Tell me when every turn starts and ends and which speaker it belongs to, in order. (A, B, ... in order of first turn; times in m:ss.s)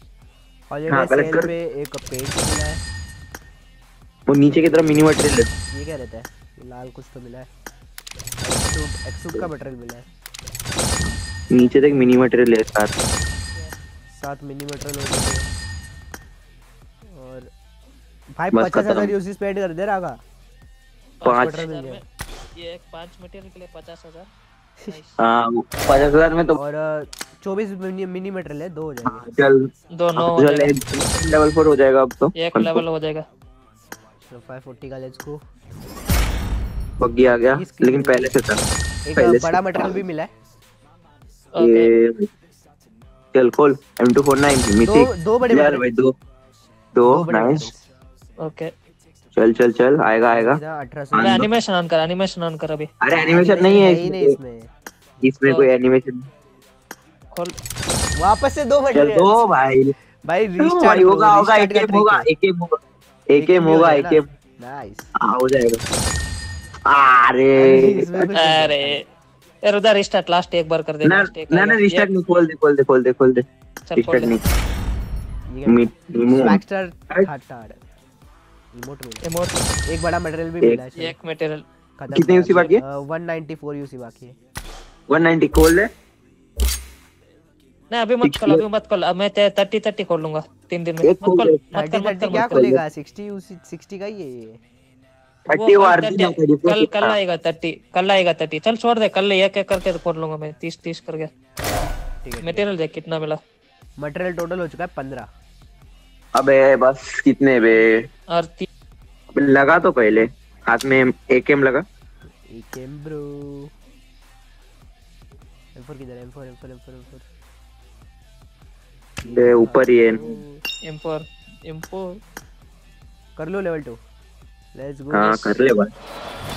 0:00.7-0:02.8 A
0:00.9-0:01.5 B
0:04.3-0:05.5 B
0:04.8-0:05.2 A
0:05.7-0:07.5 A
0:08.4-0:10.1 A
0:11.0-0:12.9 B
0:14.2-0:15.5 A
0:17.1-0:17.5 A
0:18.4-0:20.2 A
0:18.5-0:19.1 B
0:21.2-0:22.0 C
0:21.2-0:21.6 B
0:21.3-0:22.0 A
0:22.6-0:24.3 C
0:24.9-0:25.2 C
0:25.2-0:26.6 B
0:26.6-0:29.3 A
0:29.1-0:32.8 B
0:29.9-0:30.7 C
0:32.4-0:33.2 C
0:34.2-0:35.4 A
0:37.0-0:38.6 B
0:37.5-0:38.3 A
0:39.1-0:40.3 A
0:39.2-0:40.0 B
0:41.6-0:41.9 C
0:41.6-0:42.3 B
0:43.3-0:46.1 B
0:44.8-0:45.8 A
0:47.0-0:47.7 B
0:47.0-0:47.9 A
0:48.4-0:48.7 C
0:49.4-0:50.6 B
0:50.3-0:51.4 A
0:51.1-0:51.5 B
0:51.2-0:52.9 C
0:53.0-0:54.4 B
0:53.1-0:54.7 A
0:55.2-0:56.3 B
0:58.2-0:59.4 A
0:58.9-0:59.9 B
1:00.2-1:02.3 A
1:00.6-1:02.8 B
1:03.3-1:04.3 B
1:03.3-1:05.1 A
1:05.2-1:05.8 B
1:06.9-1:08.3 B
1:07.6-1:09.0 A
1:08.3-1:09.0 C
1:09.6-1:12.1 C
1:11.0-1:13.4 B
1:13.9-1:14.4 C
1:14.0-1:14.4 B
1:15.5-1:17.8 A
1:15.7-1:16.6 B
1:18.7-1:19.3 A
1:19.2-1:19.5 C
1:19.9-1:21.2 A
1:21.0-1:21.6 C
1:22.0-1:24.4 A
1:22.1-1:22.8 B
1:25.1-1:25.9 B
1:27.9-1:32.7 C
1:28.2-1:28.6 B
1:31.0-1:31.6 B
1:31.7-1:34.6 A
1:32.3-1:32.8 B
1:35.5-1:37.2 B
1:35.5-1:41.3 C
1:42.2-1:42.7 A
1:42.4-1:43.4 C
1:44.0-1:45.3 A
1:46.4-1:48.1 B
1:48.3-1:48.7 C
1:49.4-1:51.8 B
1:52.5-1:53.7 A
1:55.8-1:57.3 A
1:59.2-2:00.6 A
1:59.3-2:00.2 B
2:00.9-2:02.0 C
2:03.4-2:04.0 A
2:04.8-2:05.6 A
2:05.1-2:05.9 B